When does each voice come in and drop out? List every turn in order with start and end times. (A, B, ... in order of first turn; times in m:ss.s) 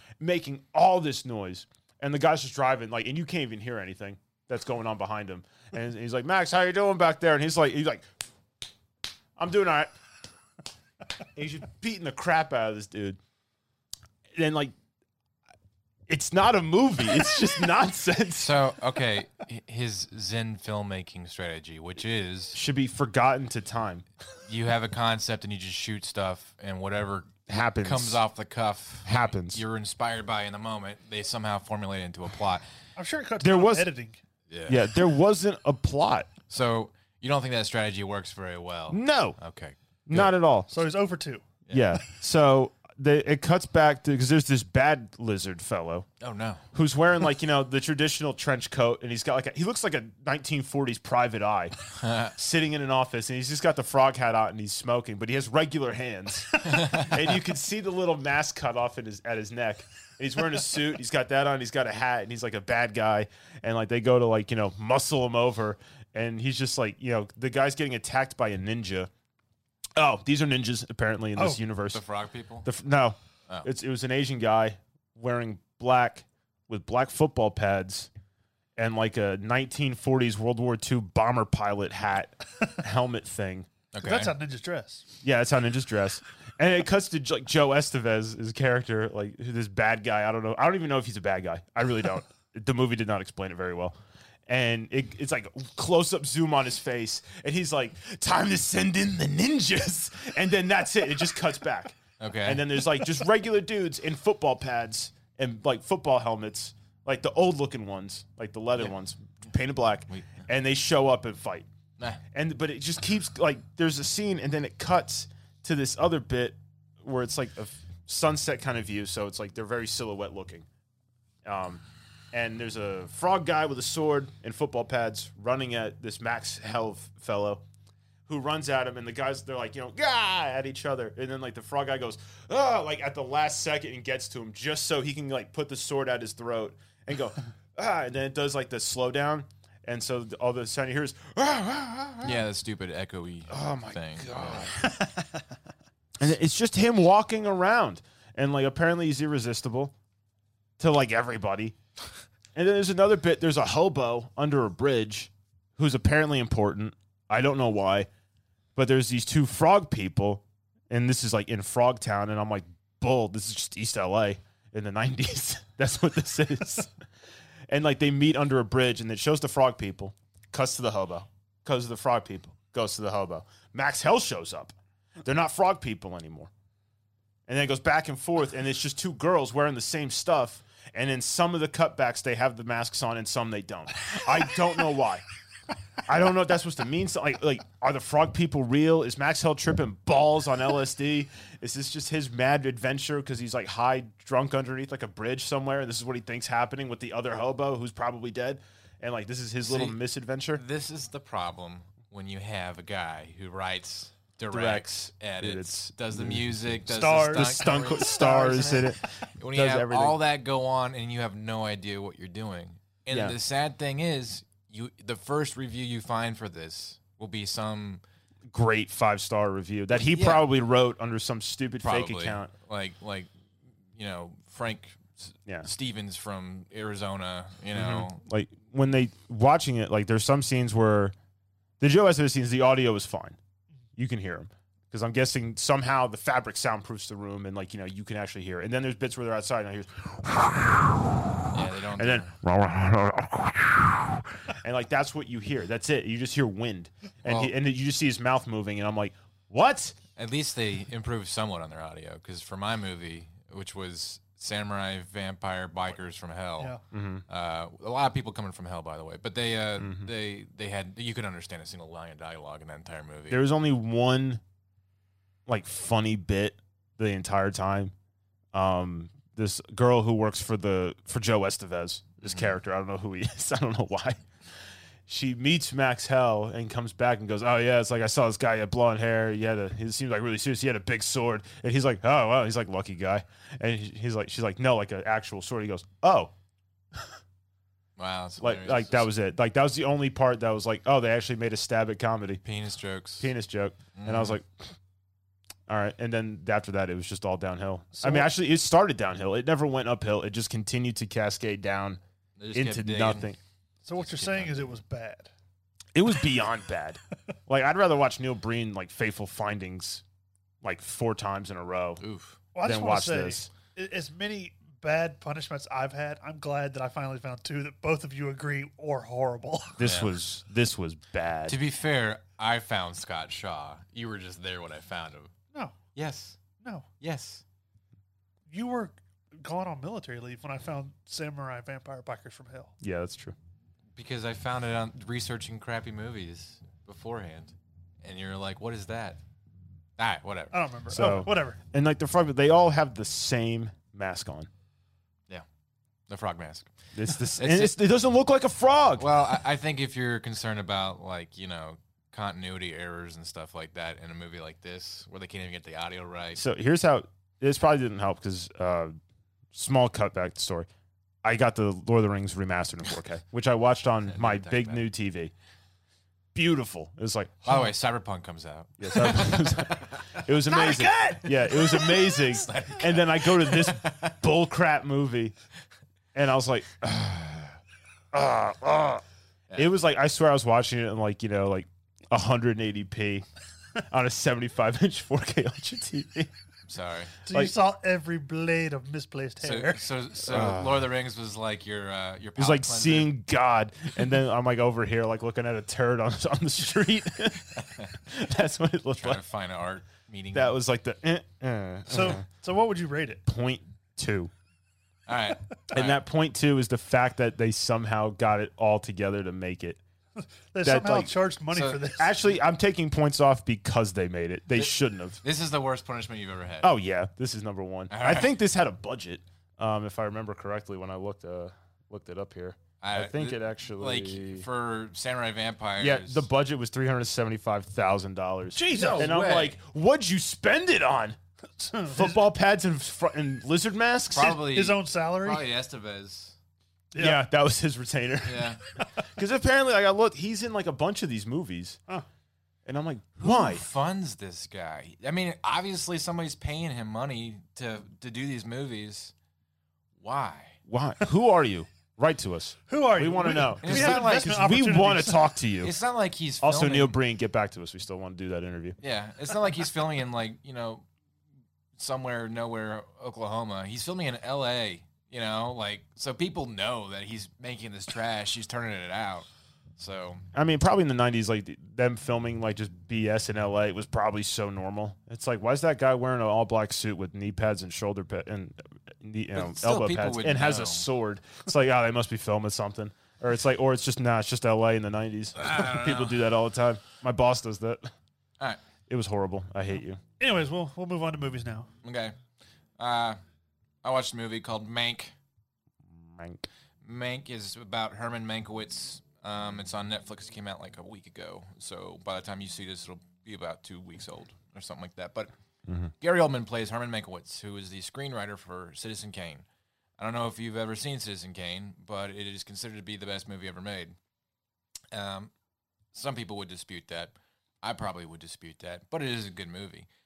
0:00.2-0:08.1 A
0:09.4-0:09.9 A
0:11.4-0:13.2 A
0:14.4-0:14.7 A
0:16.1-0:18.6 A
0:18.4-0:22.6 B
0:22.5-0:24.1 A
0:24.5-0:32.6 B
0:27.5-0:28.2 A
0:29.0-0:29.6 A
0:33.0-0:34.2 C
0:33.4-0:33.9 A
0:34.5-0:34.9 B
0:34.7-0:36.3 A
0:36.5-0:40.3 B
0:38.9-0:39.4 A
0:40.1-0:40.7 A
0:40.7-0:41.4 C
0:41.7-0:46.1 A
0:46.2-0:46.6 B
0:46.7-0:51.8 A
0:52.0-0:52.3 B
0:52.4-1:09.1 A
0:56.6-0:57.1 B
1:10.0-1:12.0 A
1:11.4-1:11.6 C
1:11.9-1:12.7 B
1:12.6-1:18.1 A
1:18.8-1:23.7 A
1:23.9-1:24.3 B
1:24.0-1:25.1 C
1:25.2-1:34.0 A
1:34.5-1:51.7 A
1:42.2-1:42.7 B
1:52.3-2:00.7 A
2:01.4-2:07.6 A
2:08.3-2:22.4 A
2:22.2-2:24.8 B
2:23.5-2:24.9 A
2:26.2-2:29.9 A
2:30.8-2:31.8 A
2:32.5-2:38.1 A
2:38.8-2:46.9 A
2:47.7-2:56.5 A
2:57.5-3:05.2 A
3:06.1-3:20.6 A
3:19.6-3:20.0 B
3:20.6-3:28.9 B
3:24.5-3:30.2 A
3:26.9-3:28.9 C
3:29.4-3:38.0 B
3:33.1-3:33.4 A
3:38.5-3:42.5 A
3:40.0-3:40.4 B
3:41.8-3:43.3 B
3:44.0-3:48.2 B
3:47.7-3:51.2 A
3:51.8-3:53.4 A
3:54.0-4:01.3 A
4:01.5-4:02.4 B
4:02.0-4:10.0 A
4:07.3-4:07.5 B
4:10.2-4:16.8 B
4:16.9-4:17.2 A
4:17.3-4:23.4 B
4:19.8-4:20.1 A
4:23.3-4:24.4 A
4:25.5-4:27.9 A
4:28.5-4:34.2 A
4:32.2-4:32.5 B
4:35.1-4:46.3 A
4:48.0-4:49.1 B
4:48.4-4:52.4 A
4:52.4-4:53.3 B
4:53.2-4:54.7 A
4:54.0-4:54.4 B
4:55.7-5:02.0 A
4:58.0-4:58.3 C
5:02.4-5:03.3 B
5:02.5-5:03.4 A
5:03.9-5:05.3 C
5:03.9-5:04.8 B
5:06.0-5:10.0 A
5:10.6-5:12.0 A
5:12.0-5:12.4 B
5:12.6-5:19.8 C
5:12.6-5:13.5 A
5:19.8-5:21.6 A
5:19.8-5:20.1 B
5:21.5-5:25.3 B
5:26.0-5:26.4 B
5:26.6-5:26.9 C
5:27.0-5:27.4 B
5:28.5-5:32.7 C
5:32.8-5:33.4 A
5:34.0-5:39.2 B
5:40.0-5:40.6 B
5:40.5-5:41.6 C
5:40.9-5:44.5 A
5:46.1-5:46.7 B
5:46.9-5:49.1 A
5:47.3-5:47.8 B
5:49.0-5:56.4 B
5:56.4-5:59.0 A
5:59.5-6:00.7 A
6:01.2-6:05.3 A
6:04.1-6:04.8 B
6:06.3-6:07.7 A
6:07.5-6:14.2 B
6:08.8-6:15.4 A
6:10.5-6:12.0 C
6:16.1-6:17.6 A
6:18.1-6:19.0 A
6:19.6-6:23.3 A
6:23.9-6:26.3 A
6:26.7-6:27.2 B
6:27.3-6:29.8 C
6:29.4-6:33.1 B
6:30.2-6:30.9 A
6:32.4-6:39.2 A
6:37.5-6:37.9 B
6:38.9-6:40.6 B
6:40.3-6:42.2 A
6:41.9-6:43.2 C
6:43.3-6:44.3 A
6:45.1-6:46.0 B
6:45.7-6:49.8 A
6:50.2-6:52.1 C
6:50.6-6:51.1 A
6:51.5-6:51.8 B
6:52.0-6:55.2 A
6:54.6-6:56.7 B
6:56.6-7:04.5 A
6:57.9-6:58.3 B
7:02.8-7:06.3 B
7:05.8-7:11.2 A
7:08.6-7:09.1 C
7:08.7-7:09.6 B
7:11.6-7:12.2 C
7:11.9-7:14.4 A
7:14.1-7:16.4 B
7:14.2-7:15.4 C
7:16.9-7:17.2 C
7:17.0-7:21.8 A
7:18.2-7:18.6 B
7:22.7-7:23.6 A
7:23.2-7:29.1 B
7:30.0-7:30.6 B
7:30.7-7:35.7 A
7:32.7-7:35.3 C
7:33.5-7:34.4 B
7:35.6-7:37.0 B
7:36.4-7:38.8 A
7:38.8-7:40.9 B
7:41.8-7:50.2 B
7:50.3-8:07.9 A
7:59.3-8:00.9 B
8:05.4-8:06.2 B
8:08.9-8:10.0 A
8:10.2-8:11.7 C
8:11.8-8:12.2 B
8:12.8-8:13.2 B
8:13.8-8:15.2 B
8:15.9-8:16.5 A
8:16.8-8:25.3 B
8:25.7-8:25.9 A
8:26.0-8:29.5 B
8:30.0-8:34.0 B
8:34.9-8:35.3 B
8:35.9-8:39.9 B